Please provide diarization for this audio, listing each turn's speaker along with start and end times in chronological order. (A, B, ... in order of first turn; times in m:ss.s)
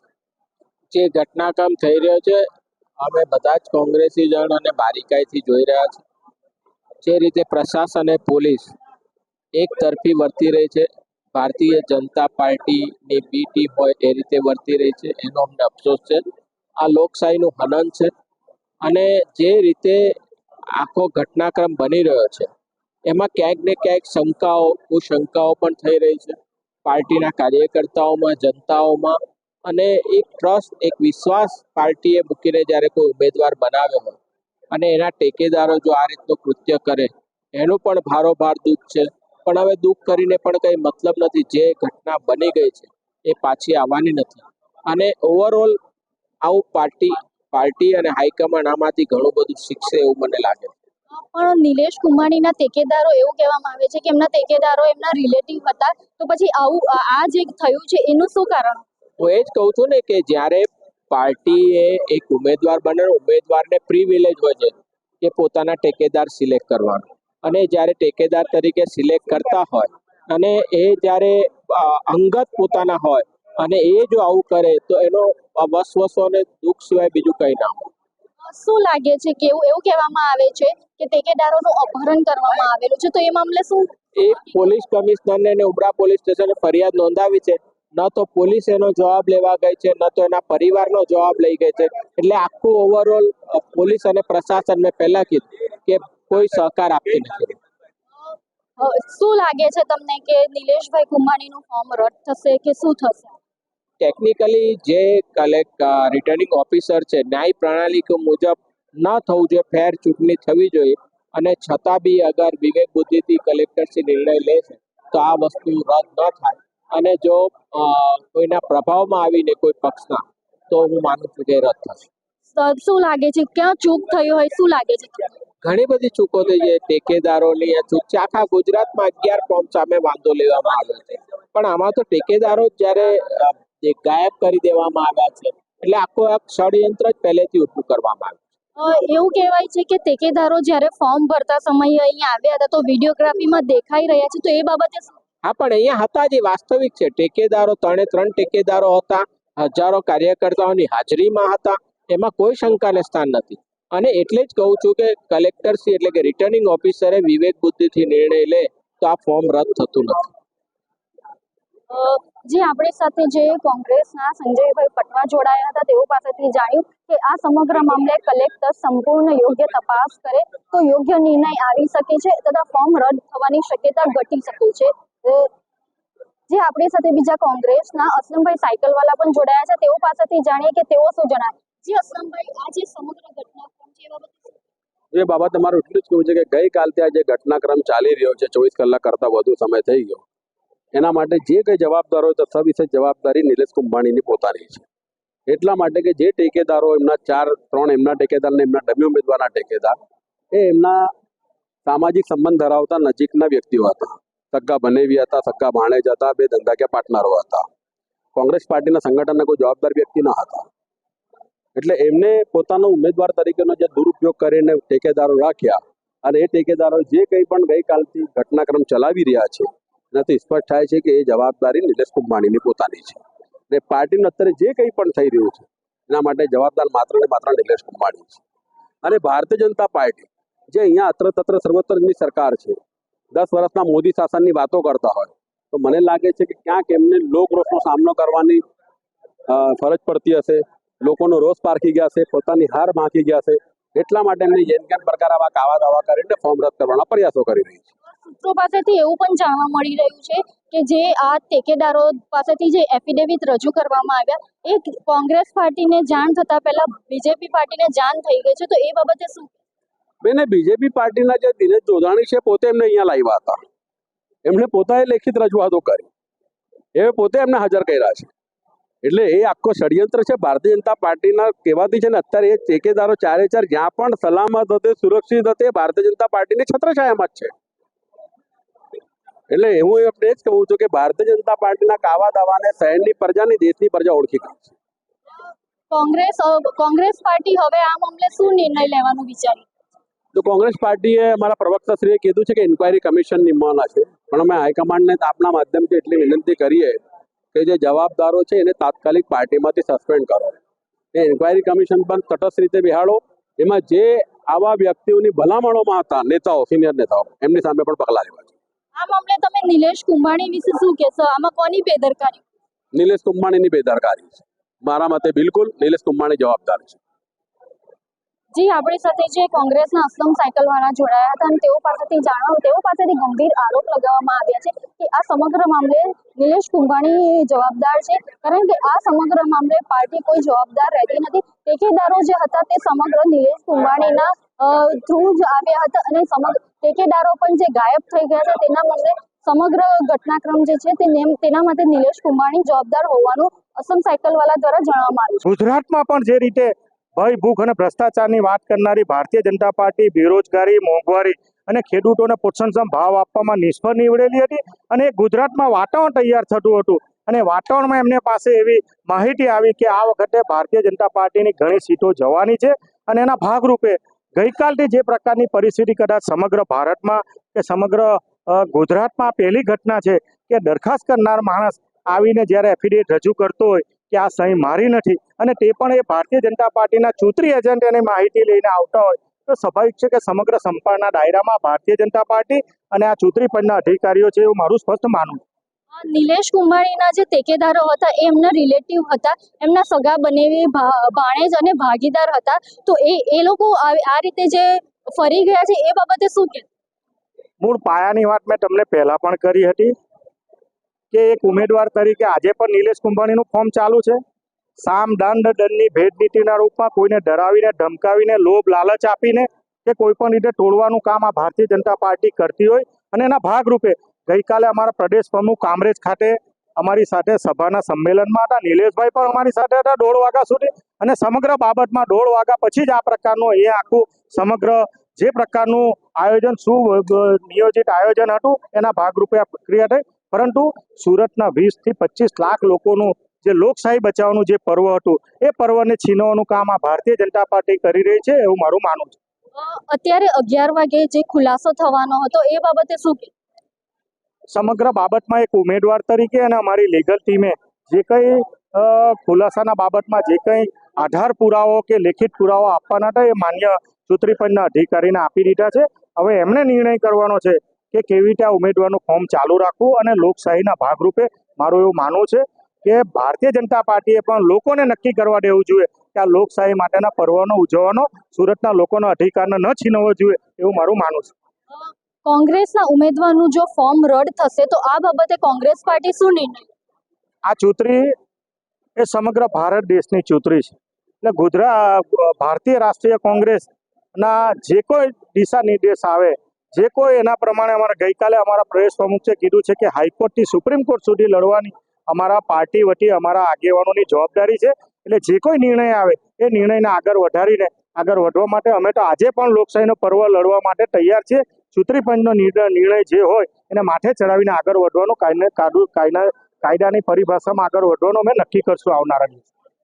0:00.9-0:02.4 A
0:03.0-0:06.0 A
0:07.0-0:08.7 A
0:09.5-0:16.2 A
0:16.8-0:18.1 A
0:18.8-0:20.2 A
0:20.8-0:22.5 A
0:23.0-0:34.2 A
0:34.7-0:45.8 A
0:46.4-0:50.7 A
0:51.1-0:58.8 B
0:59.2-1:17.9 A
1:18.4-1:24.6 B
1:24.2-1:37.6 A
1:38.2-1:43.3 B
1:44.0-2:02.1 A
2:02.5-2:05.4 B
2:05.6-2:18.4 A
2:18.8-2:25.1 B
2:25.4-2:40.3 A
2:41.9-2:55.5 B
2:56.5-3:04.6 B
3:05.1-3:10.2 C
3:10.9-3:14.8 C
3:15.5-3:20.0 C
3:20.5-3:21.1 C
3:21.8-3:27.6 C
3:28.3-3:30.7 C
3:31.8-3:48.4 C
3:49.0-3:52.8 C
3:53.3-3:58.6 C
3:59.5-4:07.9 C
4:08.1-4:19.5 B
4:20.2-4:23.6 C
4:24.4-4:26.1 C
4:26.9-4:28.3 C
4:29.0-4:37.5 C
4:39.5-4:44.7 C
4:45.9-4:49.6 B
4:50.3-4:57.0 C
4:57.5-5:00.6 C
5:01.1-5:08.5 C
5:09.0-5:12.4 B
5:12.9-5:17.0 C
5:18.5-5:45.4 B
5:45.4-6:25.4 D
6:25.9-6:36.7 B
6:37.6-6:39.9 D
6:41.1-6:44.2 D
6:44.8-7:19.2 D
7:19.6-7:23.3 B
7:24.5-7:51.3 D
7:51.7-7:56.7 B
7:57.5-7:58.1 D
7:59.0-8:29.5 D